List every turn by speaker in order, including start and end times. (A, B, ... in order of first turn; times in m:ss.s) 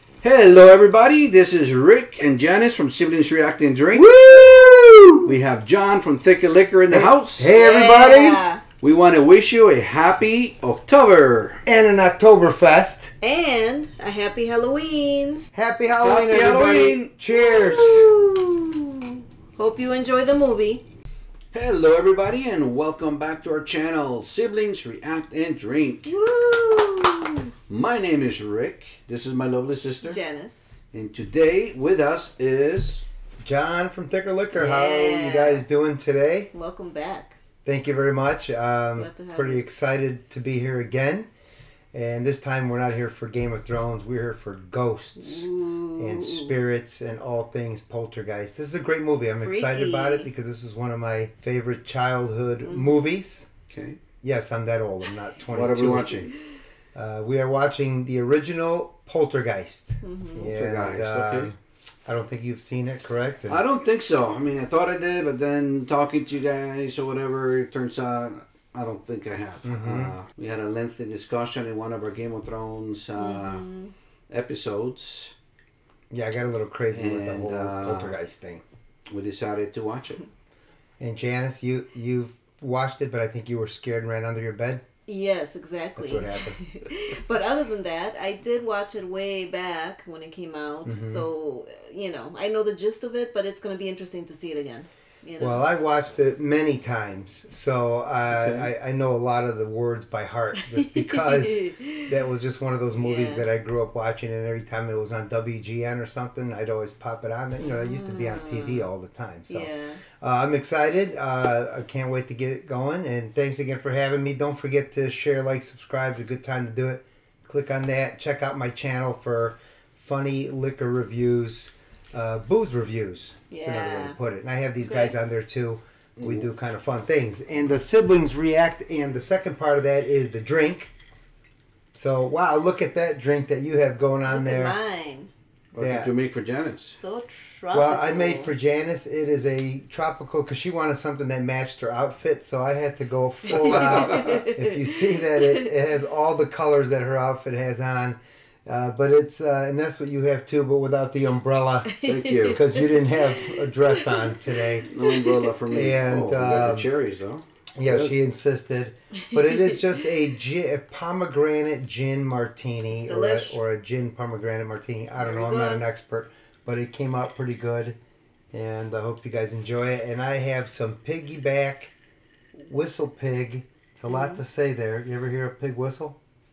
0:00.2-0:04.1 A
0:03.9-0:05.3 B
0:05.2-0:07.5 A
0:06.9-0:08.4 B
0:07.5-0:08.6 C
0:08.8-0:11.6 A
0:11.6-0:13.1 B
0:13.2-0:15.5 C
0:15.5-0:18.1 B
0:16.0-0:17.1 A
0:17.4-0:20.8 C
0:21.5-0:26.2 A
0:26.1-0:27.5 C
0:27.7-0:30.2 A
0:30.0-0:30.7 C
0:30.9-0:33.0 A
0:33.4-0:36.5 B
0:34.5-0:35.6 C
0:36.5-0:37.4 C
0:37.6-0:41.3 B
0:39.0-0:39.6 C
0:41.9-0:53.5 B
0:45.2-0:46.5 C
0:49.4-0:50.3 C
0:52.6-0:52.9 C
0:53.7-0:54.0 A
0:54.2-0:56.3 B
0:55.5-0:56.3 A
0:57.0-1:03.6 B
1:00.0-1:00.5 C
1:00.5-1:01.5 A
1:03.5-1:13.7 A
1:09.6-1:10.2 B
1:13.2-1:13.9 C
1:14.3-1:15.3 A
1:16.1-1:18.6 B
1:16.9-1:18.2 A
1:19.1-1:20.2 A
1:21.0-1:24.8 B
1:25.1-1:35.6 C
1:26.0-1:26.6 B
1:30.8-1:31.3 B
1:35.4-2:10.9 B
1:38.3-1:38.7 A
1:40.6-1:42.1 C
1:43.0-1:43.5 C
1:47.7-1:48.9 C
1:49.5-1:50.0 C
2:03.5-2:04.2 C
2:04.8-2:05.2 C
2:06.2-2:06.4 A
2:11.9-2:14.8 B
2:14.3-2:15.3 C
2:15.7-2:17.0 A
2:15.8-2:16.1 B
2:16.9-2:18.5 C
2:17.7-2:32.0 B
2:23.6-2:25.7 C
2:23.6-2:24.3 A
2:31.9-2:34.4 C
2:32.0-2:32.6 A
2:32.5-2:34.9 B
2:34.9-2:38.1 A
2:35.0-2:35.5 C
2:35.7-2:36.9 B
2:37.8-2:48.0 B
2:39.3-2:39.8 C
2:42.9-2:43.6 C
2:45.2-2:45.8 C
2:48.5-2:51.9 B
2:52.6-2:56.2 B
2:54.1-2:54.4 C